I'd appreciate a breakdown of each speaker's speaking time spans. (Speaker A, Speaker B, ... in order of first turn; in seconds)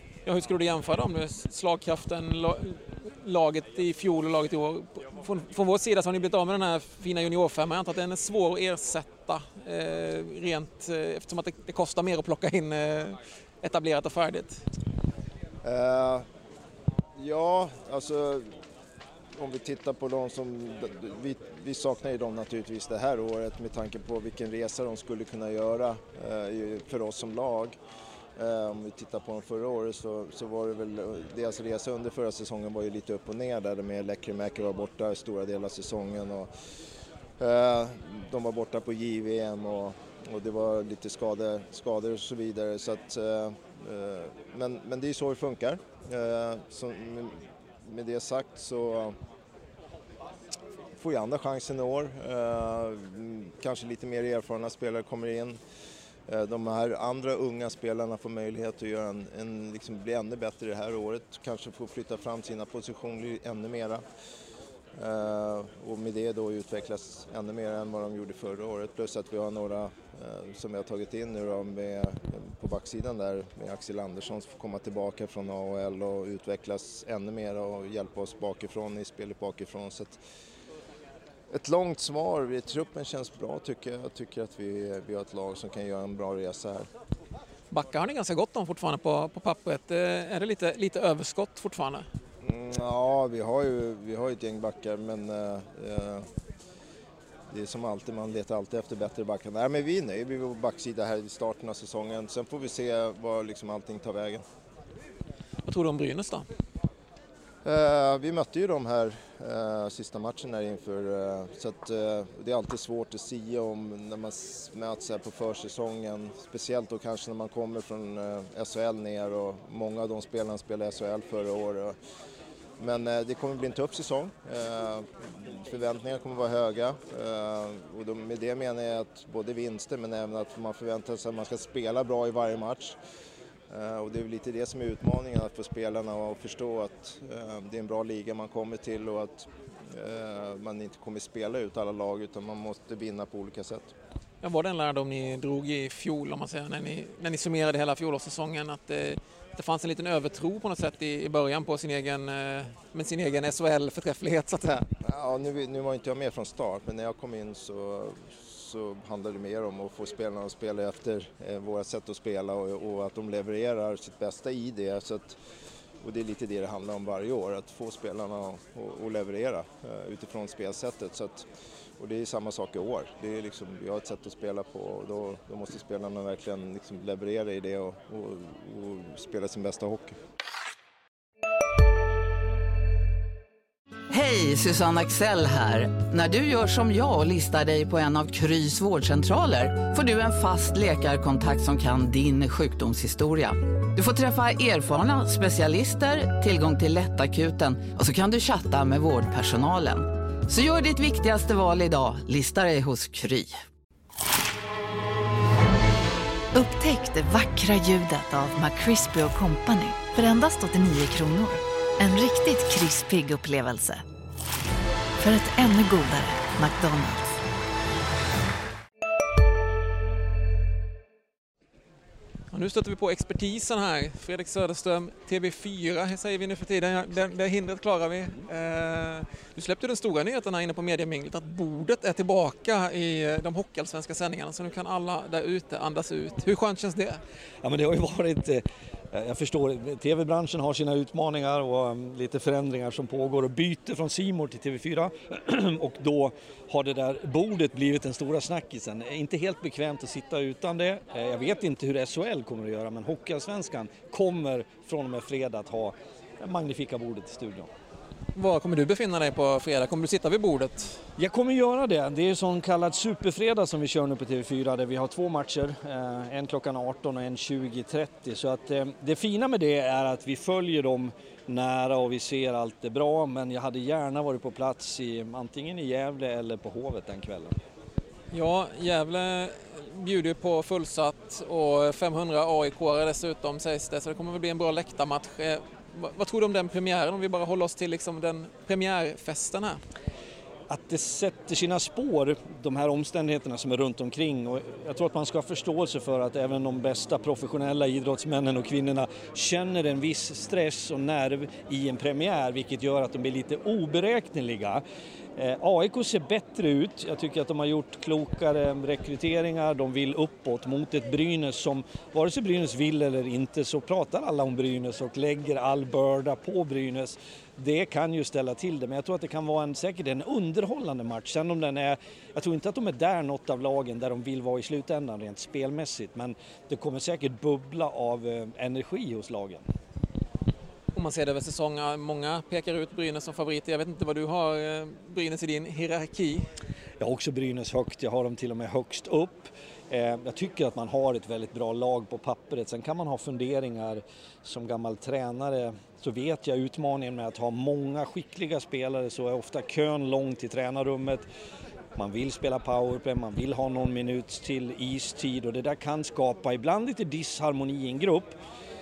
Speaker A: 0.3-14.6, 87.7-92.1, 105.7-106.5, 144.4-154.9, 222.5-237.2, 258.4-261.0, 278.3-289.8, 330.9-336.5
Speaker B: 15.6-16.3, 17.2-18.6, 19.4-27.8, 28.4-36.5, 37.4-49.2, 51.0-55.6, 56.3-64.0, 65.0-80.2, 81.5-86.9, 92.4-96.3, 97.5-104.4, 107.6-122.0, 122.8-133.0, 133.7-143.9, 155.0-165.4, 166.0-171.5, 172.0-180.2
Speaker C: 184.1-203.6
Speaker D: 206.5-214.0, 215.2-217.4
Speaker E: 237.6-257.7, 261.2-277.5, 290.7-304.8, 305.4-329.6, 337.0-351.3, 352.0-358.4